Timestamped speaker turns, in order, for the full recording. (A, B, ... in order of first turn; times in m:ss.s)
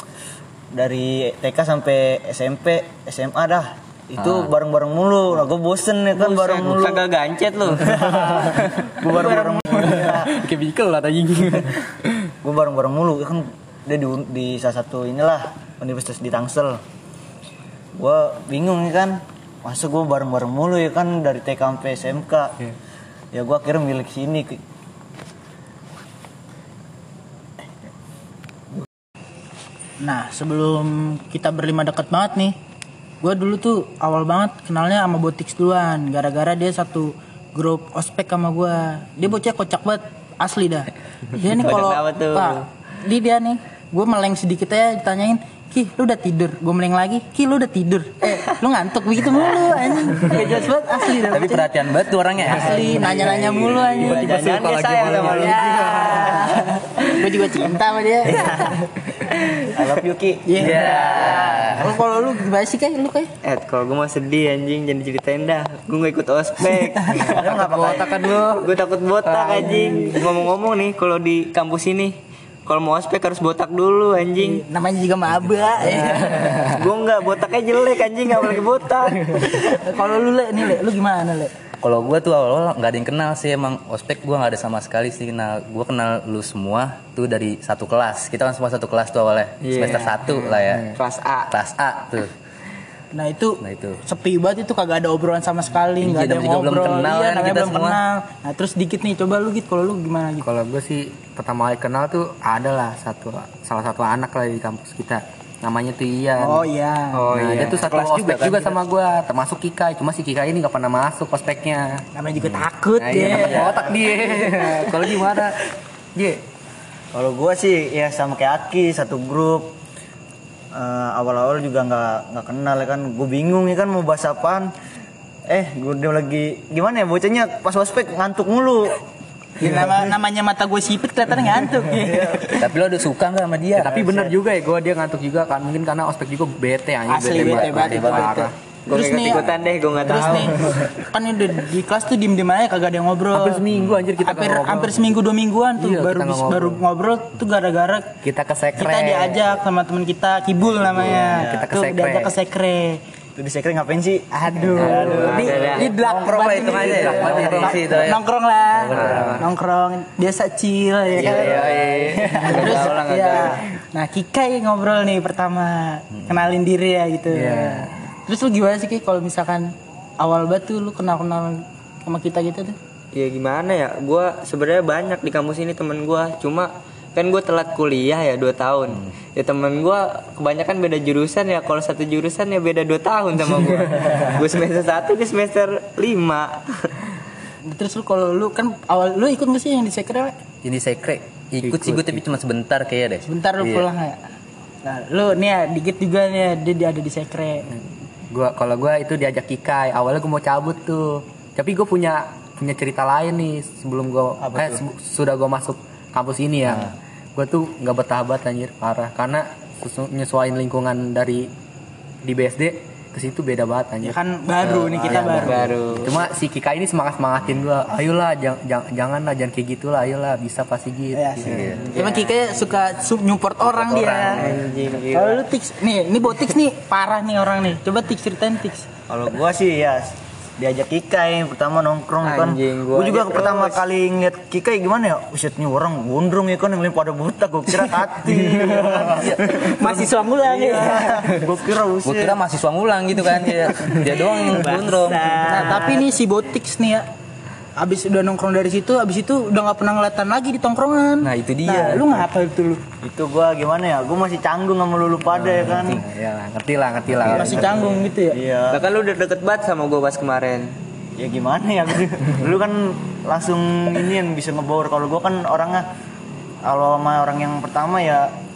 0:00.7-0:07.0 A
0:04.2-0:04.5 B
0:06.1-0:08.8 C
0:07.7-0:10.4 A
0:09.2-0:12.2 D
0:12.4-0:16.8 A
0:18.0-0:22.6 A
0:23.3-0:24.6 A
0:30.0-0:32.6 E
0:33.2-0:51.7 E
0:41.5-0:42.6 C
0:51.3-0:53.2 B
0:52.4-0:54.4 E
0:53.0-0:57.2 C
0:53.8-0:56.3 D
0:55.1-0:58.7 E
0:58.3-0:59.9 C
0:59.7-1:01.5 A
1:00.5-1:03.3 E
1:00.6-1:01.9 B
1:00.6-1:01.8 C
1:03.4-1:08.0 C
1:06.7-1:07.2 E
1:07.1-1:08.7 D
1:07.3-1:08.4 A
1:08.6-1:12.2 C
1:09.2-1:10.2 D
1:09.7-1:10.1 E
1:12.7-1:14.6 C
1:14.4-1:16.6 E
1:16.0-1:16.8 D
1:16.4-1:19.3 C
1:19.3-1:21.5 E
1:21.8-1:30.9 B
1:29.6-1:30.3 C
1:30.4-1:31.0 D
1:31.0-1:31.5 C
1:31.5-1:32.3 B
1:33.1-1:40.5 E
1:33.6-1:34.0 B
1:36.0-1:38.0 B
1:40.4-1:52.0 D
1:46.4-1:47.3 E
1:47.3-1:47.9 C
1:47.9-1:48.8 B
1:52.2-1:53.7 E
1:53.0-1:55.6 D
1:53.3-1:53.9 A
1:56.2-1:56.4 D
1:57.1-1:59.8 A
2:00.7-2:04.7 A
2:05.5-2:09.0 A
2:09.6-2:12.7 E
2:12.0-2:12.5 A
2:12.6-2:14.0 B
2:13.8-2:18.5 D
2:14.0-2:14.3 A
2:17.1-2:19.5 E
2:17.3-2:18.3 B
2:18.9-2:20.8 C
2:20.0-2:23.6 E
2:23.3-2:25.0 D
2:23.8-2:24.0 B
2:24.2-2:28.1 E
2:25.8-2:26.8 D
2:28.2-2:29.5 D
2:28.8-2:33.0 E
2:31.0-2:31.7 A
2:31.2-2:32.3 D
2:33.4-2:36.0 A
2:34.3-2:52.8 E
2:34.8-2:35.9 C
2:36.0-2:38.2 B
2:36.6-2:37.7 D
2:37.2-2:37.8 A
2:38.7-2:39.4 B
2:38.9-2:39.4 C
2:41.2-2:41.6 A
2:41.2-2:42.9 D
2:41.2-2:41.8 B
2:42.4-2:43.6 C
2:47.3-2:47.9 D
2:53.1-3:06.9 C
3:07.7-3:10.3 E
3:10.6-3:13.9 B
3:11.6-3:12.2 D
3:13.2-3:14.2 E
3:14.8-3:17.7 E
3:17.7-3:31.5 D
3:24.4-3:24.8 A
3:32.2-3:41.8 D
3:34.0-3:35.7 E
3:35.1-3:36.2 C
3:41.1-3:44.5 E
3:41.5-3:41.8 B
3:41.9-3:42.3 C
3:43.9-3:44.4 D
3:44.0-3:44.3 B
3:44.2-3:45.4 C
3:45.1-3:48.9 E
3:49.1-4:02.4 A
3:52.2-3:53.8 C
3:59.0-4:01.3 E
3:59.1-4:00.0 B
4:02.0-4:05.7 B
4:04.4-4:06.0 C
4:05.5-4:07.0 E
4:07.8-4:12.8 E
4:11.2-4:12.2 B
4:13.0-4:16.0 A
4:15.3-4:17.8 D
4:17.1-4:17.6 B
4:17.3-4:18.8 A
4:17.4-4:18.4 E
4:18.7-4:20.8 C
4:21.2-4:25.9 A
4:26.6-4:28.3 A